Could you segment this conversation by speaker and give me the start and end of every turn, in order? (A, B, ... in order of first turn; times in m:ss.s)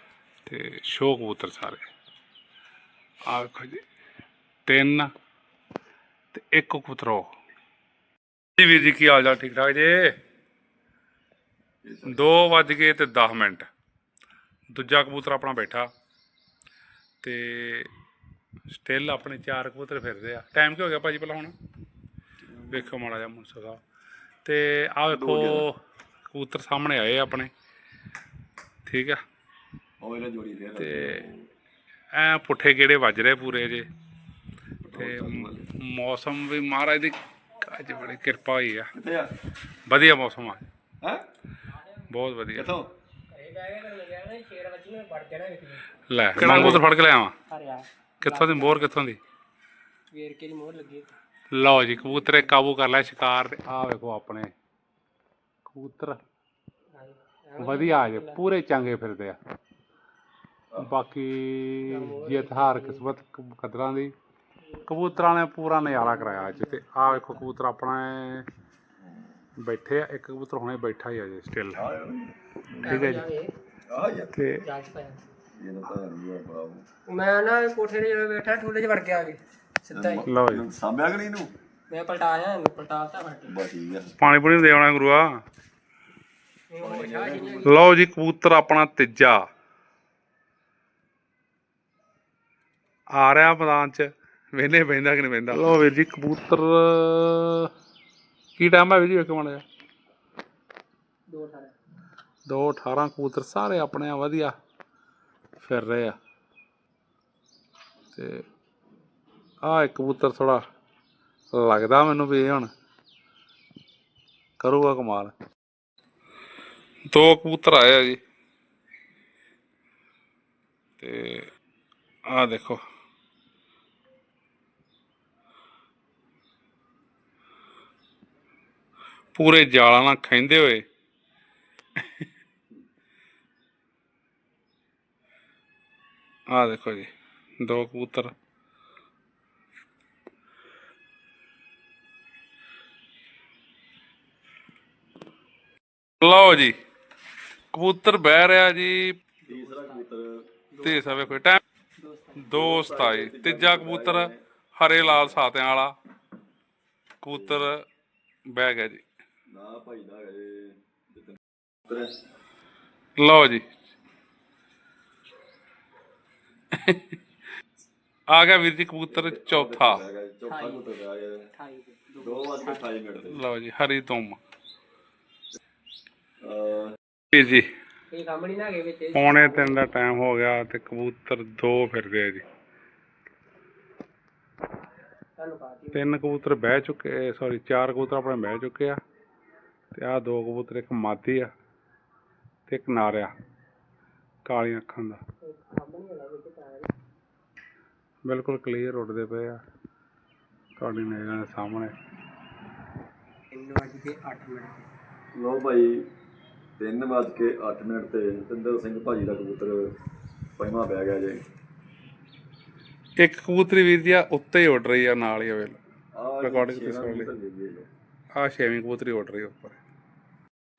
0:00.5-0:01.9 A
0:03.3-0:03.8 A
0:04.7-0:05.1 A
0:06.3-0:07.3 A
0:08.6-0:10.2 A
0:11.8-0:12.2 B
0:12.1-0:13.7 A
0:14.7-0:15.9 A
0:17.2-0:17.9 A
0:18.7-0:21.6 A
0:22.4-0:22.9 B
0:22.7-0:23.8 A
0:24.4-0:27.5 A
0:25.1-0:25.7 B
0:28.8-0:29.2 A
0:30.0-0:31.5 B
0:30.8-0:31.3 A
0:32.1-0:33.9 A
0:34.8-0:35.7 B
0:34.9-0:38.9 A
0:38.9-0:39.3 B
0:39.9-0:40.6 A
0:42.1-0:42.7 A
0:42.6-0:42.9 B
0:43.3-0:45.9 C
0:46.1-0:47.3 A
0:46.4-0:46.8 C
0:47.5-0:48.9 C
0:48.2-0:49.2 A
0:50.1-0:51.1 C
0:51.5-0:54.5 A
0:55.7-0:56.2 A
0:57.0-0:58.4 C
0:57.6-0:59.4 A
1:00.8-1:04.1 A
1:01.9-1:03.0 C
1:04.7-1:05.3 C
1:04.9-1:08.5 A
1:05.8-1:07.5 C
1:09.0-1:09.4 B
1:09.6-1:11.9 A
1:11.7-1:13.1 B
1:12.8-1:13.2 A
1:12.8-1:13.5 C
1:13.9-1:14.4 B
1:14.3-1:14.6 A
1:14.6-1:15.3 C
1:15.6-1:16.8 B
1:17.1-1:20.3 C
1:19.9-1:21.5 B
1:20.3-1:20.7 A
1:21.9-1:23.6 C
1:23.5-1:24.2 B
1:24.2-1:25.4 A
1:26.7-1:27.8 C
1:26.8-1:27.8 B
1:27.6-1:29.4 A
1:33.2-1:37.7 A
1:38.6-1:39.6 A
1:41.3-1:41.8 C
1:42.5-1:44.6 A
1:45.6-1:46.2 A
1:48.2-1:48.4 A
1:49.6-1:50.6 A
1:51.5-1:52.7 A
1:54.6-1:55.3 A
1:57.1-1:58.2 A
2:01.0-2:01.5 A
2:02.3-2:02.8 A
2:09.3-2:10.8 A
2:16.5-2:17.1 A
2:17.6-2:18.3 A
2:26.2-2:26.8 A
2:27.7-2:29.2 A
2:29.4-2:30.0 C
2:29.5-2:30.5 B
2:30.7-2:31.4 C
2:30.8-2:31.6 A
2:32.0-2:32.6 C
2:32.4-2:35.9 A
2:32.5-2:34.4 B
2:35.0-2:35.4 B
2:37.2-2:37.8 A
2:37.3-2:37.7 B
2:38.5-2:39.1 A
2:39.5-2:42.1 B
2:43.2-2:43.7 A
2:46.7-2:47.2 A
2:48.3-2:50.0 A
2:49.1-2:51.4 B
2:50.5-2:50.9 C
2:51.5-2:52.8 C
2:52.2-2:53.4 B
2:53.3-2:54.4 A
2:56.4-2:57.0 B
2:57.3-2:57.7 A
2:58.1-2:59.8 C
2:59.1-3:02.4 A
3:05.4-3:06.0 C
3:05.9-3:09.0 A
3:10.0-3:11.5 A
3:12.7-3:13.3 A
3:14.5-3:15.2 A
3:15.4-3:16.9 C
3:18.2-3:19.6 A
3:20.8-3:21.9 A
3:23.5-3:24.9 C
3:25.4-3:26.0 B
3:26.8-3:29.8 B
3:30.6-3:31.4 B
3:33.2-3:35.8 A
3:36.1-3:37.9 B
3:36.4-3:37.3 A
3:38.4-3:39.8 A